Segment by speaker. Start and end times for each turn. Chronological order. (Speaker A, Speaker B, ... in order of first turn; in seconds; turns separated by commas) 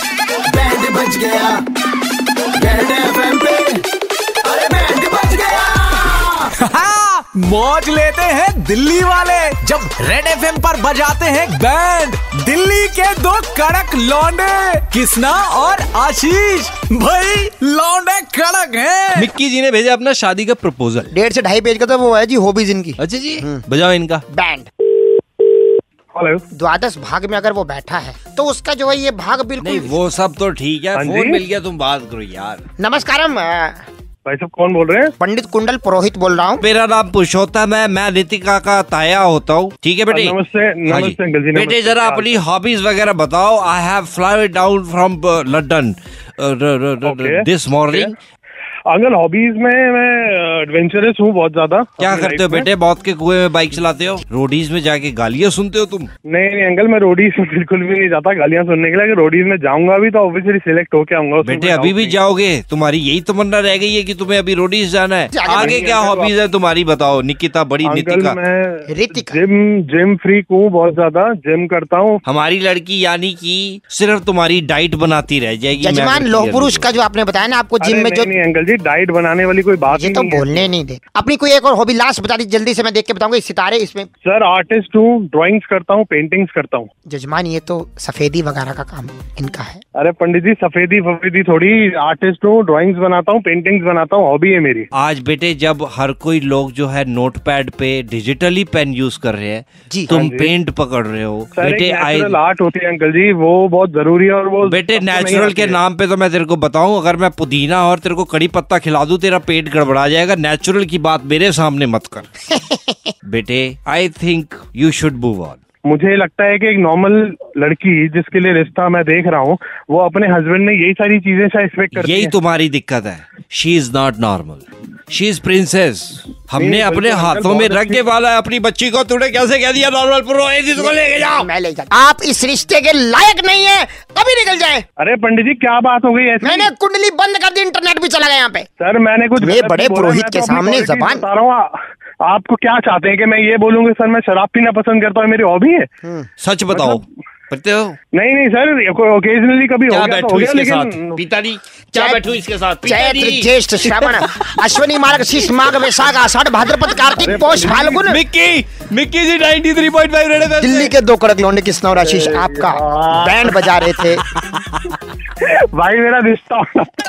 Speaker A: 0.6-1.5, Speaker A: 2.6-3.5, Speaker B: 3.1-3.8, Speaker A: 4.5-5.7, Speaker B: 5.8-19.3, Speaker C: 19.1-21.1, Speaker D: 21.1-23.6, Speaker C: 23.0-24.2, Speaker D: 24.3-24.7, Speaker E: 26.1-26.4, Speaker D: 26.5-30.0, Speaker C: 29.6-32.6, Speaker E: 30.9-31.4, Speaker D: 32.8-33.9, Speaker E: 34.2-35.1, Speaker D: 35.2-36.6, Speaker C: 36.6-48.2, Speaker E: 40.1-42.4, Speaker E: 47.0-48.1, Speaker E: 48.9-52.7, Speaker C: 52.0-56.1, Speaker E: 56.3-62.2, Speaker C: 61.4-68.4, Speaker D: 65.3-65.8, Speaker E: 65.5-66.3, Speaker E: 67.8-72.2, Speaker D: 68.9-69.4, Speaker C: 72.3-76.9, Speaker D: 75.8-78.3, Speaker E: 77.8-80.7, Speaker D: 79.9-84.1, Speaker E: 84.2-86.9, Speaker D: 87.1-89.8, Speaker E: 90.0-94.9, Speaker C: 94.9-102.4, Speaker E: 100.1-100.5, Speaker E: 101.6-105.8, Speaker C: 104.7-112.3, Speaker D: 112.5-113.1, Speaker C: 113.3-115.6, Speaker E: 115.8-122.3, Speaker C: 122.0-131.5, Speaker E: 126.6-128.1, Speaker D: 130.8-134.8, Speaker E: 135.0-136.7, Speaker D: 136.4-138.7, Speaker E: 138.8-145.9, Speaker D: 139.4-141.3, Speaker D: 146.0-146.3, Speaker C: 146.4-148.0, Speaker E: 146.7-147.0, Speaker E: 148.1-151.2, Speaker C: 149.9-154.3, Speaker D: 151.9-152.2, Speaker D: 152.8-158.2, Speaker E: 157.2-158.1, Speaker C: 158.0-160.9, Speaker D: 160.6-164.2, Speaker E: 161.9-163.7, Speaker E: 165.4-166.9